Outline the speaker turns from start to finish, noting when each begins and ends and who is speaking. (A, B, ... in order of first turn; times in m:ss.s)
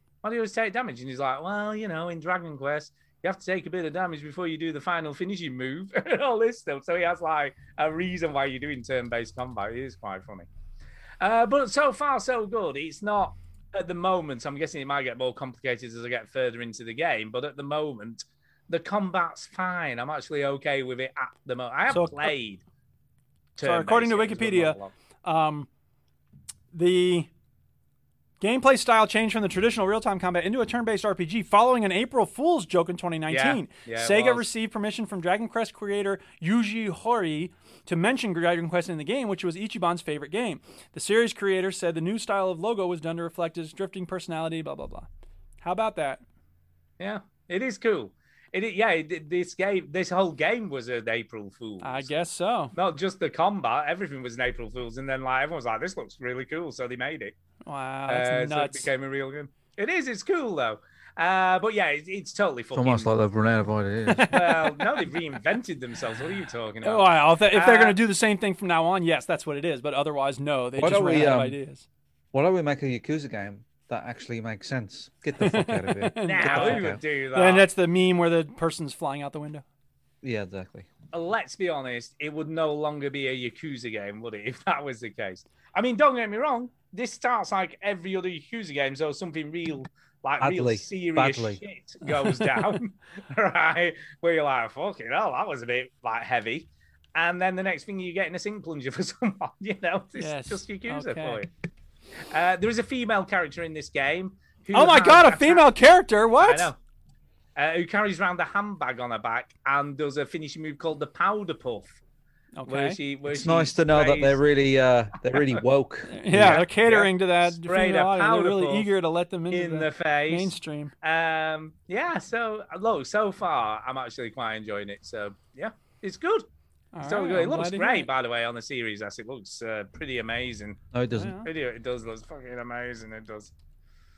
0:00.2-0:10.5 A
0:11.2-0:22.6 A
0:21.9-0:22.3 B
0:23.6-0:24.9 A
0:23.6-0:25.7 B
0:26.7-0:27.3 B
0:28.4-0:45.1 B
0:33.3-0:34.5 A
0:45.6-0:46.2 B
0:47.0-0:52.1 A
0:51.8-0:52.7 B
0:52.7-0:57.3 A
0:57.6-0:58.9 B
0:58.1-1:03.1 A
1:02.7-1:04.4 C
1:04.1-1:04.8 B
1:04.3-1:08.0 A
1:06.8-1:11.8 B
1:10.8-1:11.6 C
1:12.3-1:17.0 C
1:15.4-1:19.6 B
1:16.2-1:17.7 A
1:20.2-1:20.9 C
1:21.1-1:41.5 A
1:30.4-1:31.6 C
1:40.2-1:41.4 B
1:42.3-1:45.7 A
1:44.7-1:46.7 B
1:46.4-1:46.8 A
1:47.6-1:52.0 A
1:52.6-1:53.0 B
1:52.6-1:54.4 A
1:53.3-1:56.6 C
1:56.1-2:00.9 B
1:56.3-1:58.9 A
1:59.5-2:06.4 A
2:06.9-2:08.1 B
2:07.0-2:10.8 A
2:10.9-2:11.4 C
2:11.2-2:11.5 B
2:11.4-2:13.5 A